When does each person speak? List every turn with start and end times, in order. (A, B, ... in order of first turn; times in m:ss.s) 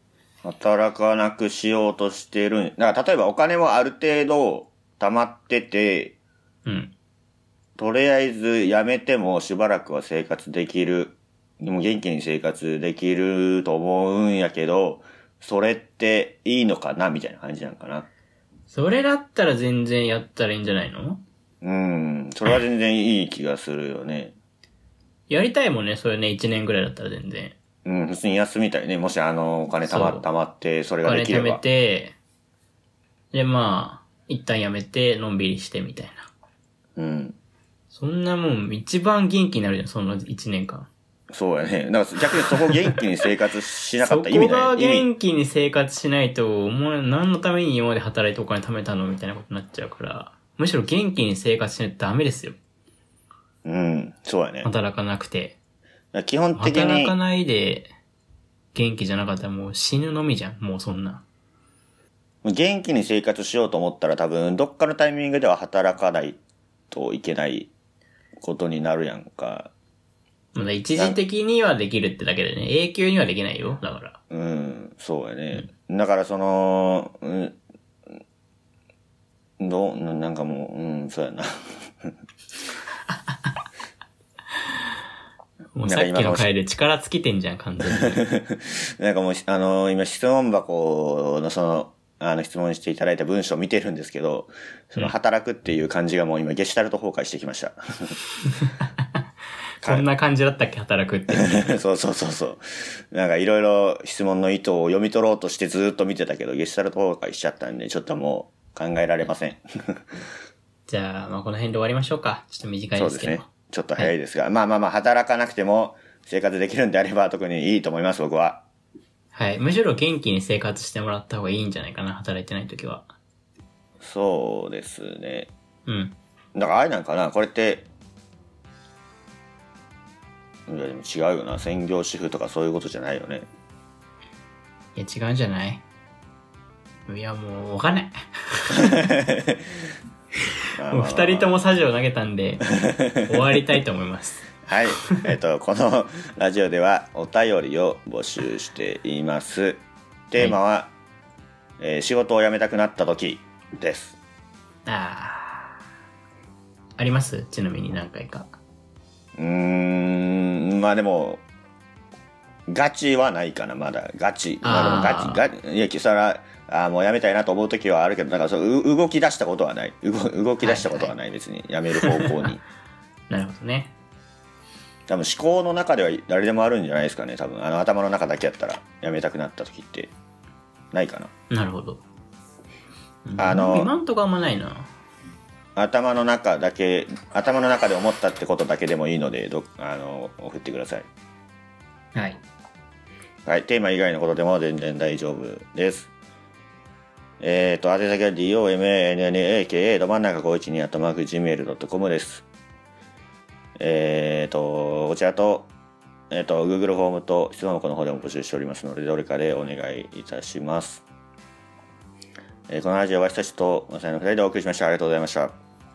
0:00.4-0:06.2 A
0:06.7-0:06.9 B
0:07.8-0:18.1 A
0:18.7-0:21.2 B
0:21.6-0:24.4 A
0:25.3-0:27.6 B
0:27.8-0:31.6 A
0:29.9-0:30.3 B
0:31.0-0:32.2 B
0:33.3-0:36.3 B
0:37.0-0:37.4 A
0:37.9-0:40.9 B
0:41.3-0:45.1 A
0:44.0-0:52.6 B
0:53.6-0:54.7 A
0:54.6-0:55.6 B
0:56.1-0:57.2 A
0:56.6-0:57.9 B
0:58.7-1:01.2 B
1:02.4-1:06.4 A
1:06.9-1:07.7 A
1:08.4-1:09.7 A
1:10.5-1:14.2 B
1:14.3-1:17.6 A
1:19.6-1:21.5 A
1:25.8-1:28.2 B
1:25.9-1:26.5 A
1:28.0-1:38.2 A
1:39.8-1:41.8 B
1:41.4-1:50.0 A
1:50.9-1:54.1 B
1:53.0-1:58.6 A
1:59.3-2:03.1 B
2:04.0-2:05.5 A
2:05.9-2:06.2 B
2:06.6-2:07.9 A
2:10.7-2:13.5 A
2:15.0-2:15.8 B
2:17.1-2:19.1 B
2:18.9-2:19.6 A
2:20.8-2:21.6 A
2:20.9-2:22.7 B
2:22.8-2:23.4 A
2:23.2-2:24.5 B
2:24.7-2:30.9 A
2:31.8-2:34.2 A
2:34.9-2:35.8 B
2:37.0-2:38.6 B
2:39.4-2:41.4 A
2:42.7-2:52.6 A
2:44.6-2:45.4 B
2:50.6-2:51.1 B
2:52.0-2:52.3 B
2:53.3-2:53.9 B
2:55.1-3:00.1 A
3:00.9-3:01.3 A
3:01.5-3:02.0 B
3:03.2-3:04.9 B
3:03.4-3:03.9 A
3:05.8-3:11.1 A
3:12.2-3:12.4 B
3:13.5-3:16.1 A
3:17.4-3:22.4 A
3:23.8-3:25.7 A
3:26.3-3:31.0 A
3:32.7-3:35.6 A